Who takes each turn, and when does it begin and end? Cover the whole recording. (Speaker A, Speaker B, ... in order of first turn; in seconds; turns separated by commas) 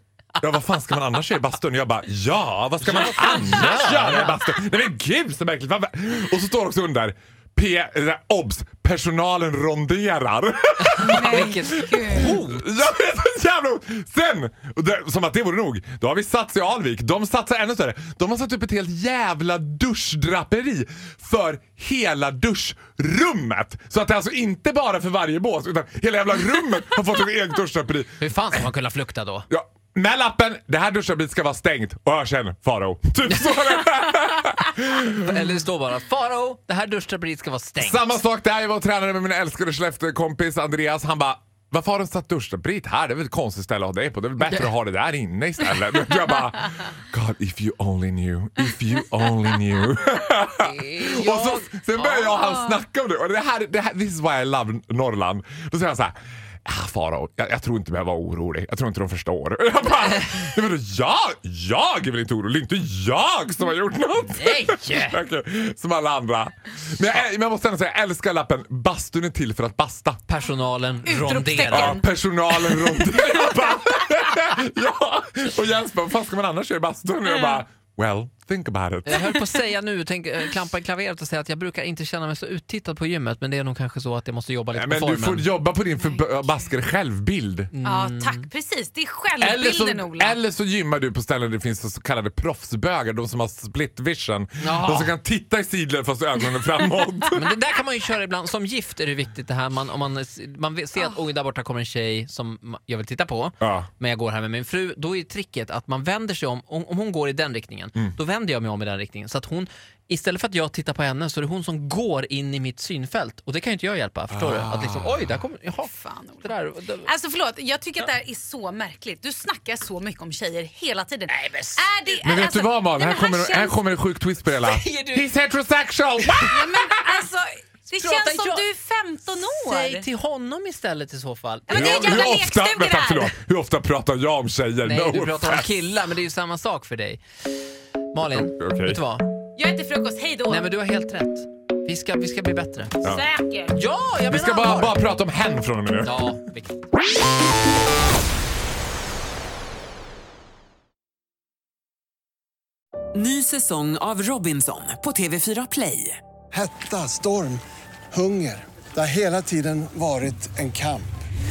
Speaker A: 0.4-28.6, Speaker B: 2.8-4.4, Speaker B: 10.8-12.7, Speaker C: 11.0-12.4, Speaker B: 28.2-29.5, Speaker A: 29.5-35.4, Speaker B: 35.2-38.1, Speaker A: 37.8-70.2, Speaker B: 50.6-52.5, Speaker B: 64.3-65.2, Speaker B: 70.3-72.0, Speaker C: 71.0-72.0, Speaker A: 71.7-79.3, Speaker C: 72.6-73.5, Speaker C: 77.2-77.6, Speaker B: 79.0-85.5, Speaker A: 84.7-87.7, Speaker C: 86.0-86.7, Speaker B: 87.7-88.5, Speaker C: 87.8-90.4, Speaker A: 89.4-97.4, Speaker B: 94.6-95.1, Speaker B: 97.3-117.1, Speaker A: 103.6-103.9, Speaker A: 114.3-115.3, Speaker C: 115.8-123.8, Speaker B: 121.3-121.8, Speaker A: 122.2-126.7, Speaker B: 124.6-125.3, Speaker C: 126.5-130.1, Speaker B: 127.9-128.6, Speaker B: 129.3-132.3, Speaker C: 131.7-133.3, Speaker A: 131.7-135.7, Speaker B: 134.8-137.2, Speaker B: 138.1-139.3, Speaker A: 138.3-139.0, Speaker C: 139.6-140.7, Speaker B: 140.5-143.0, Speaker C: 143.0-143.7, Speaker B: 143.7-144.9, Speaker A: 144.2-146.3, Speaker B: 146.0-146.8, Speaker D: 153.1-156.2, Speaker E: 156.5-161.1